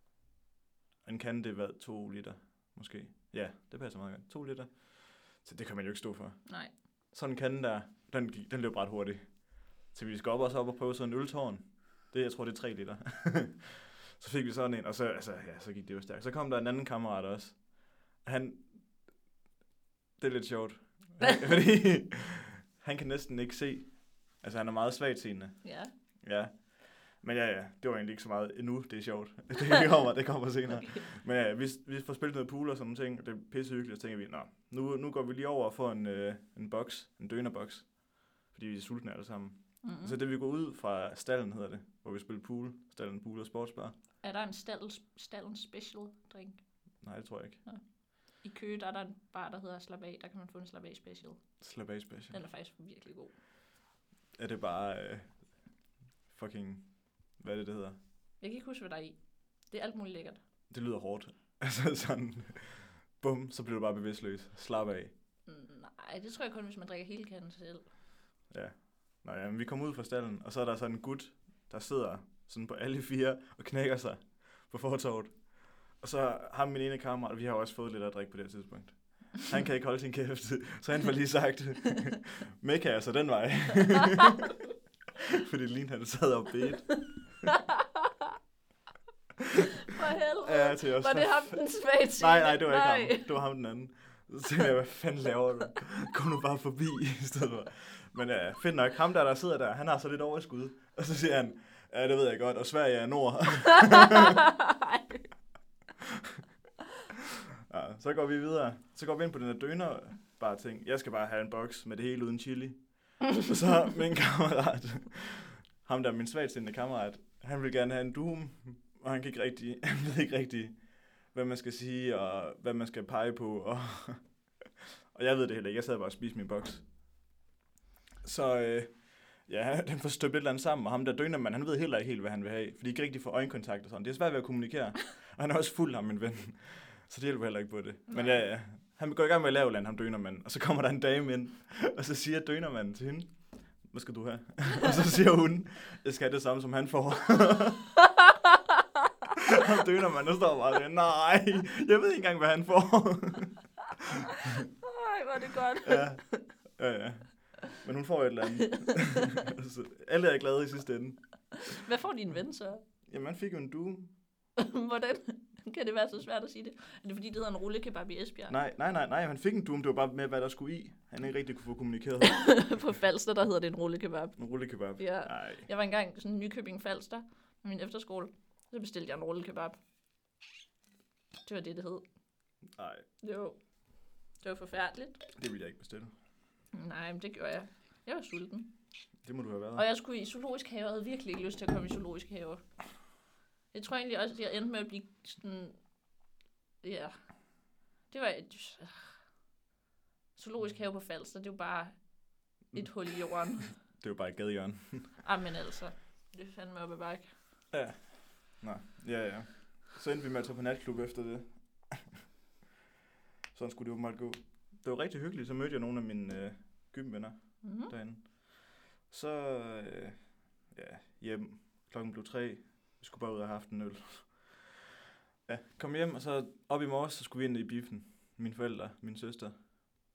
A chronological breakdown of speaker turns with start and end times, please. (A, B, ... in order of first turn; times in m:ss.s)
0:01.0-0:06.4 A
0:06.4-0:06.7 B
0:07.1-0:18.8 A
0:20.2-0:25.6 A
0:25.6-0:25.9 B
0:26.2-0:43.9 A
0:30.7-0:31.0 B
0:39.8-0:40.2 B
0:44.2-0:46.6 B
0:47.0-0:47.6 A
0:48.4-0:51.4 B
0:51.6-0:52.4 A
0:52.3-0:53.3 B
0:54.4-0:55.4 A
0:56.3-0:58.0 A
0:58.4-0:59.2 B
0:59.7-1:00.4 B
1:00.7-1:05.1 A
1:05.5-1:07.8 B
1:08.5-1:24.6 A
1:25.2-1:27.2 A
1:27.4-1:28.4 B
1:29.8-1:33.3 B
1:30.4-1:31.6 A
1:32.2-1:44.4 A
1:43.8-1:45.3 B
1:47.7-2:04.2 A
2:05.1-2:06.8 A
2:08.2-2:27.9 A
2:18.1-2:18.4 B
2:28.0-2:29.1 B
2:29.4-2:34.3 A
2:34.4-2:36.4 B
2:35.8-2:36.2 A
2:36.8-2:41.2 A
2:38.6-2:39.5 B
2:41.6-2:42.8 B
2:43.0-2:44.1 A
2:44.6-2:48.5 B
2:48.5-2:52.6 A
2:52.2-2:54.4 B
2:54.4-2:55.7 A
2:55.0-2:59.8 B
3:01.4-3:02.0 B
3:02.7-3:03.0 A
3:03.2-3:03.6 B
3:04.4-3:05.2 B
3:05.3-3:06.1 A
3:06.7-3:08.7 B
3:09.2-3:09.8 A
3:09.7-3:12.6 B
3:13.7-3:15.8 B
3:16.8-3:17.1 B
3:18.1-3:19.2 B
3:20.4-3:21.9 B
3:22.7-3:23.7 B
3:24.0-3:25.2 A
3:25.2-3:27.3 B
3:27.7-3:32.1 A
3:33.5-3:40.2 A
3:37.6-3:37.9 B
3:40.7-3:44.7 A
3:45.5-3:49.5 A